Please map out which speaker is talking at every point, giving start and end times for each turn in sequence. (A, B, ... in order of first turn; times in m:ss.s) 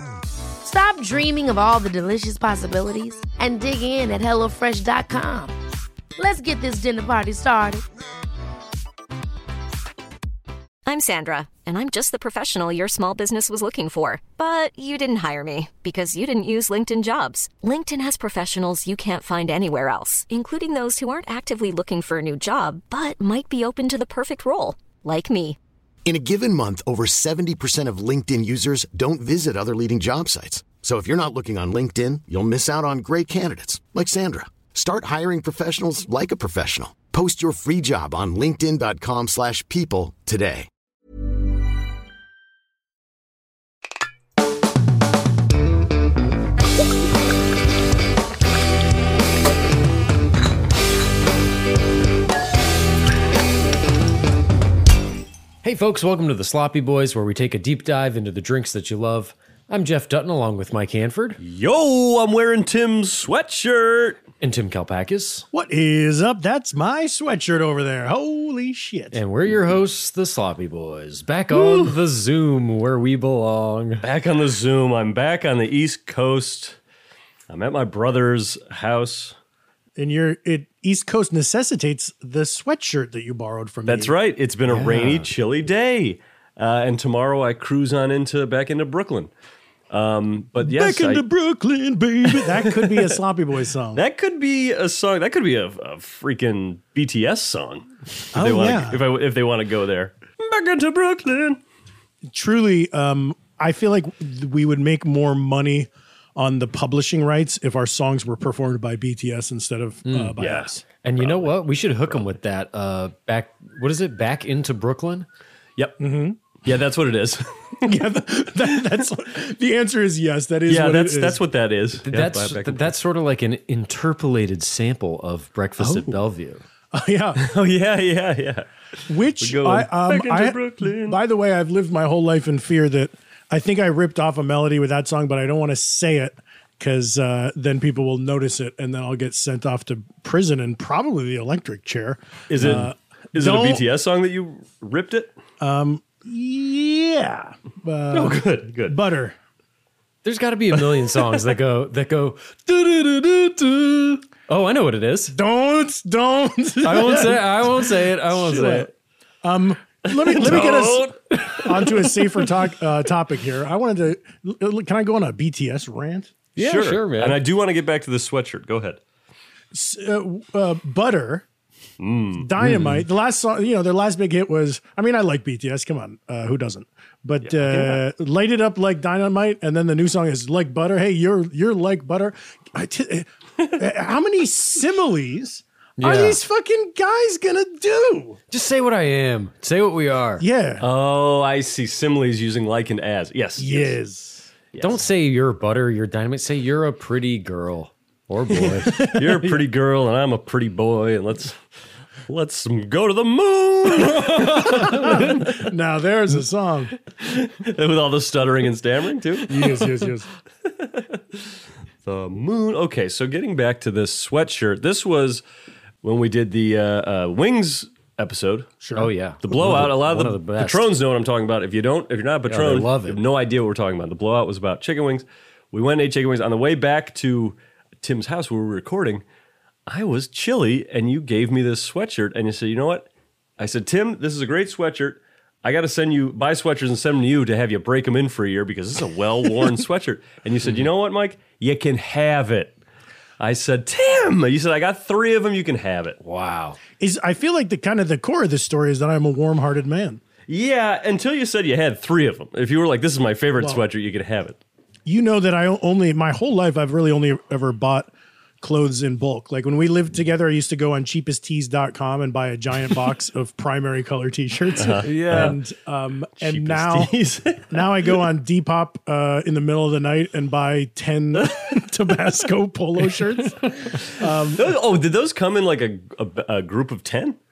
0:00.6-0:05.5 A
0:06.2-0:07.8 A
0:10.8-0:25.6 B
0:26.0-0:40.7 C
0:55.6-1:01.4 D
1:01.4-1:04.2 E
1:04.4-1:05.4 D
1:05.5-1:09.2 F
1:09.1-1:14.0 D
1:11.5-1:12.0 E
1:14.0-1:16.8 E
1:17.5-1:19.4 E
1:20.0-1:24.1 F
1:23.9-1:29.3 E
1:24.7-1:25.3 D
1:29.9-1:31.2 E
1:30.6-1:34.0 F
1:32.3-1:33.2 E
1:33.9-1:41.6 E
1:38.3-1:39.0 F
1:42.3-1:50.8 F
1:50.1-1:50.4 D
1:50.4-1:50.7 E
1:51.0-1:55.2 D
1:51.2-1:51.5 E
1:56.0-1:56.4 F
1:56.6-1:57.9 E
1:57.8-2:01.4 F
2:00.7-2:02.9 E
2:02.0-2:06.6 D
2:05.8-2:06.2 F
2:06.9-2:07.4 F
2:07.4-2:08.7 E
2:09.1-2:23.8 F
2:09.4-2:11.2 E
2:22.5-2:25.3 E
2:25.6-2:29.4 F
2:28.1-2:29.0 E
2:30.2-2:35.4 D
2:35.3-2:38.9 F
2:36.8-2:38.9 D
2:38.3-2:38.8 E
2:39.4-2:46.4 F
2:40.1-2:42.2 E
2:46.6-2:47.4 D
2:46.6-2:49.0 E
2:49.7-2:51.4 F
2:52.0-2:52.5 E
2:52.4-3:08.4 F
2:52.6-2:53.0 D
2:57.4-2:58.0 E
3:06.0-3:06.4 D
3:08.5-3:10.4 D
3:10.4-3:10.8 F
3:10.8-3:14.0 E
3:13.6-3:14.5 F
3:14.7-3:15.0 E
3:14.8-3:19.5 D
3:18.6-3:21.6 E
3:19.1-3:19.4 F
3:22.3-3:25.6 E
3:24.1-3:26.9 F
3:27.2-3:29.9 E
3:29.5-3:30.3 F
3:30.7-3:31.4 E
3:32.0-3:35.4 E
3:36.0-3:38.7 E
3:38.8-3:39.1 F
3:39.0-3:40.9 D
3:39.4-3:49.2 E
3:42.5-3:43.2 D
3:49.9-4:02.8 E
4:03.4-4:06.2 E
4:06.2-4:06.8 D
4:07.0-4:10.2 F
4:10.5-4:14.6 E
4:13.6-4:13.8 F
4:15.1-4:27.2 F
4:24.8-4:25.6 E
4:25.1-4:25.6 D
4:26.4-4:28.1 E
4:27.7-4:34.8 F
4:33.9-4:37.4 E